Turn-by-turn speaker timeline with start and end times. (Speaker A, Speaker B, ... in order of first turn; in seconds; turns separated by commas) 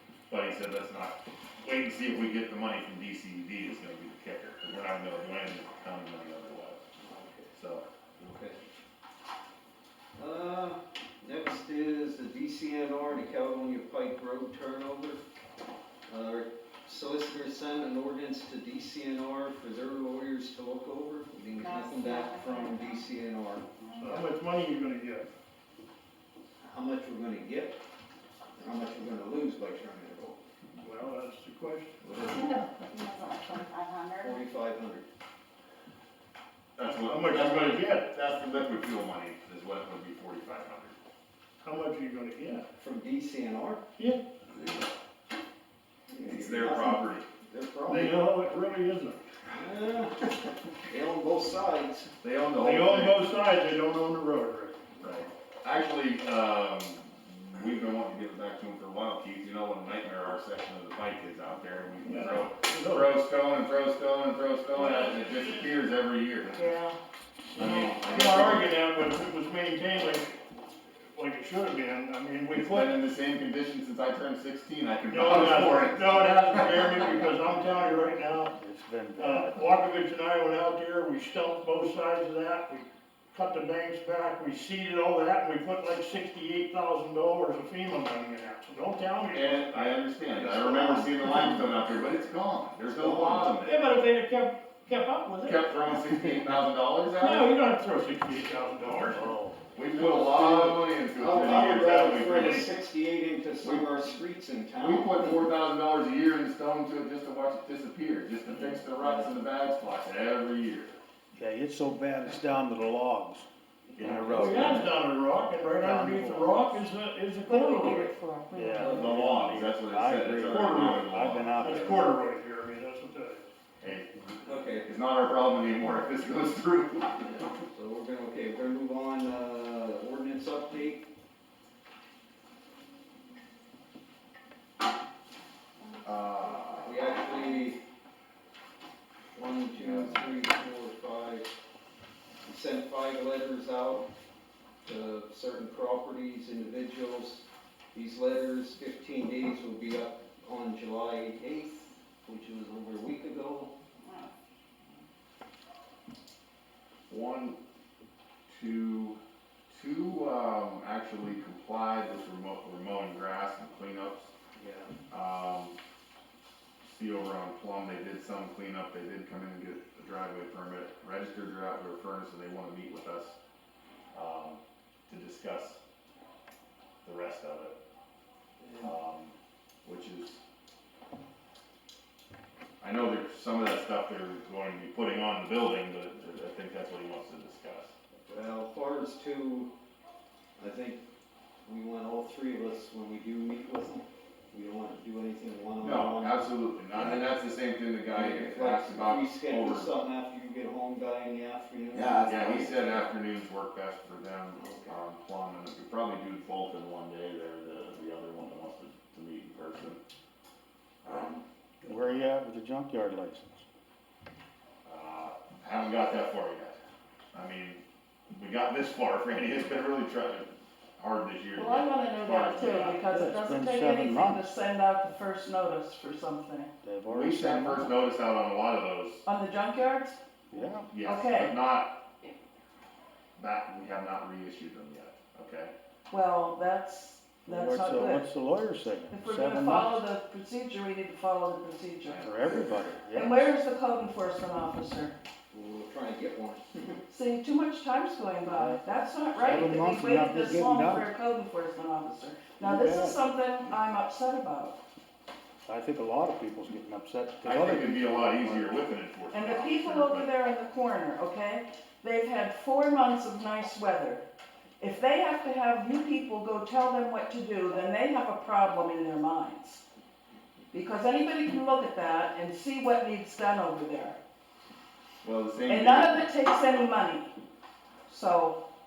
Speaker A: 0.3-6.8, Speaker B: 7.0-7.5, Speaker A: 7.5-7.8, Speaker B: 8.2-8.6, Speaker B: 10.2-15.2, Speaker B: 16.1-23.7, Speaker C: 21.6-23.0, Speaker D: 24.0-25.3, Speaker B: 26.6-27.8, Speaker B: 28.6-30.4, Speaker D: 30.8-32.0, Speaker B: 32.0-32.8, Speaker C: 32.5-34.3, Speaker B: 34.1-35.0, Speaker A: 36.8-41.0, Speaker D: 37.0-38.1, Speaker D: 41.6-42.7, Speaker B: 42.8-43.8, Speaker D: 44.0-44.2, Speaker B: 46.1-48.2, Speaker A: 46.2-47.3, Speaker D: 47.9-49.3, Speaker B: 49.5-52.1, Speaker A: 52.2-53.2, Speaker D: 52.6-54.8, Speaker A: 55.0-66.7, Speaker D: 62.0-63.1, Speaker D: 64.8-65.5, Speaker E: 66.5-67.0, Speaker A: 67.5-68.7, Speaker D: 67.5-70.3, Speaker D: 71.1-73.0, Speaker A: 72.5-77.2, Speaker D: 75.1-78.5, Speaker F: 78.5-79.7, Speaker D: 79.2-90.0, Speaker A: 89.3-94.0, Speaker B: 90.3-92.2, Speaker B: 92.8-93.5, Speaker D: 93.5-96.5, Speaker A: 95.4-97.6, Speaker D: 97.2-99.3, Speaker F: 99.1-99.6, Speaker A: 99.7-102.7, Speaker B: 99.9-105.4, Speaker A: 103.6-103.9, Speaker A: 104.8-111.0, Speaker B: 108.9-109.3, Speaker F: 111.3-114.9, Speaker A: 114.0-114.9, Speaker D: 114.3-118.1, Speaker F: 115.8-116.8, Speaker E: 117.5-119.0, Speaker F: 118.5-122.2, Speaker A: 118.8-122.0, Speaker D: 120.4-121.1, Speaker D: 121.6-123.5, Speaker A: 123.8-124.1, Speaker B: 124.4-124.9, Speaker A: 124.8-127.3, Speaker B: 127.3-131.1, Speaker A: 136.0-137.1, Speaker B: 136.8-137.8, Speaker B: 139.3-141.5, Speaker A: 139.7-140.5, Speaker B: 142.4-144.1, Speaker B: 144.8-153.7, Speaker A: 157.1-157.6, Speaker A: 158.5-159.2, Speaker A: 159.7-164.3, Speaker B: 164.6-164.9, Speaker A: 165.1-165.8, Speaker A: 166.8-173.3, Speaker A: 174.1-175.8, Speaker A: 177.0-177.8, Speaker B: 178.6-178.9, Speaker A: 178.8-180.4, Speaker A: 182.8-187.9, Speaker B: 188.2-189.7, Speaker B: 190.6-191.0, Speaker B: 191.6-196.4, Speaker A: 195.8-199.9, Speaker B: 196.9-197.2, Speaker B: 198.1-202.8, Speaker A: 202.2-210.0, Speaker B: 204.6-204.9, Speaker A: 211.0-211.4, Speaker F: 211.8-213.6, Speaker A: 214.8-216.8, Speaker A: 217.3-223.0, Speaker E: 221.6-226.7, Speaker F: 223.1-224.5, Speaker F: 226.8-228.0, Speaker A: 227.1-229.2, Speaker E: 229.2-230.2, Speaker F: 230.5-230.9, Speaker A: 230.5-232.0, Speaker E: 231.0-232.3, Speaker A: 233.3-235.7, Speaker E: 236.1-238.3, Speaker F: 237.4-240.0, Speaker E: 239.1-242.2, Speaker A: 242.0-243.0, Speaker F: 242.2-243.5, Speaker E: 243.1-245.1, Speaker B: 245.5-247.0, Speaker E: 247.1-254.8, Speaker F: 248.5-248.8, Speaker F: 249.4-251.1, Speaker F: 252.6-253.2, Speaker F: 255.6-258.8, Speaker A: 257.4-260.3, Speaker E: 259.3-264.2, Speaker E: 264.8-269.8, Speaker E: 270.7-274.2, Speaker A: 275.2-276.3, Speaker E: 275.7-277.3, Speaker E: 278.1-278.6